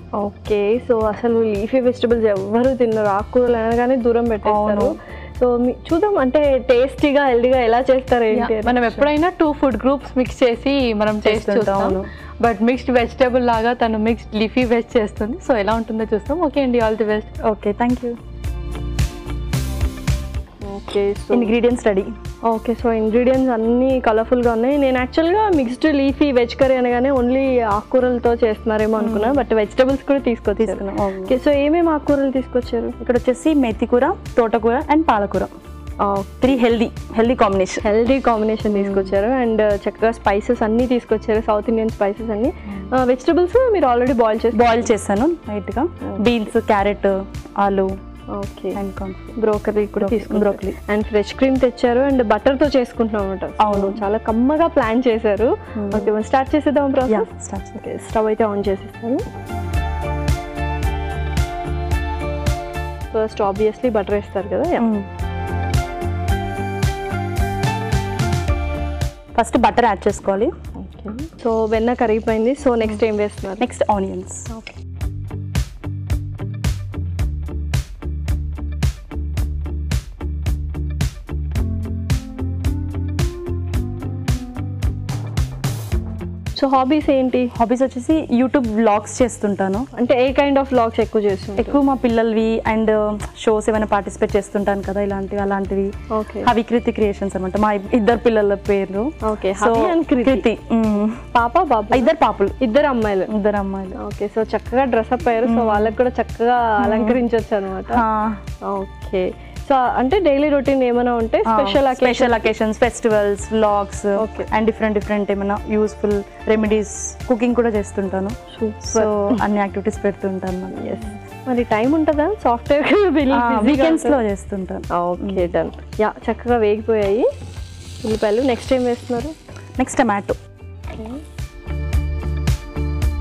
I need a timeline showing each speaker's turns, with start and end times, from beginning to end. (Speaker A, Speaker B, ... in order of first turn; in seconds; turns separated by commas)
Speaker A: 0.2-8.8, Speaker B: 4.4-4.9, Speaker C: 8.3-17.3, Speaker B: 11.2-12.1, Speaker B: 17.4-18.2, Speaker A: 20.6-21.5, Speaker B: 21.3-22.1, Speaker A: 22.5-33.0, Speaker B: 29.0-29.4, Speaker B: 30.6-31.3, Speaker B: 33.0-35.5, Speaker A: 36.0-36.6, Speaker B: 36.4-37.8, Speaker A: 37.8-44.9, Speaker B: 38.7-39.1, Speaker B: 44.5-47.9, Speaker A: 48.3-48.8, Speaker B: 48.7-49.4, Speaker A: 49.4-59.2, Speaker B: 50.0-50.7, Speaker B: 53.6-54.0, Speaker B: 55.8-56.1, Speaker B: 57.1-57.8, Speaker A: 63.1-64.9, Speaker B: 64.8-65.1, Speaker B: 69.3-70.5, Speaker A: 70.8-73.6, Speaker B: 73.6-74.5, Speaker A: 86.5-87.5, Speaker B: 87.5-89.9, Speaker A: 89.9-91.8, Speaker B: 91.6-95.9, Speaker A: 96.1-96.5, Speaker B: 96.4-101.2, Speaker A: 99.2-100.5, Speaker A: 101.2-103.3, Speaker B: 101.9-102.5, Speaker B: 103.3-104.0, Speaker A: 104.0-108.0, Speaker B: 105.4-106.0, Speaker B: 106.8-107.2, Speaker B: 107.9-108.4, Speaker A: 108.7-112.5, Speaker B: 111.5-121.0, Speaker A: 114.2-114.5, Speaker A: 118.5-119.4, Speaker A: 120.7-124.2, Speaker B: 123.3-125.4, Speaker A: 124.9-127.3, Speaker A: 128.0-129.3, Speaker B: 129.8-130.3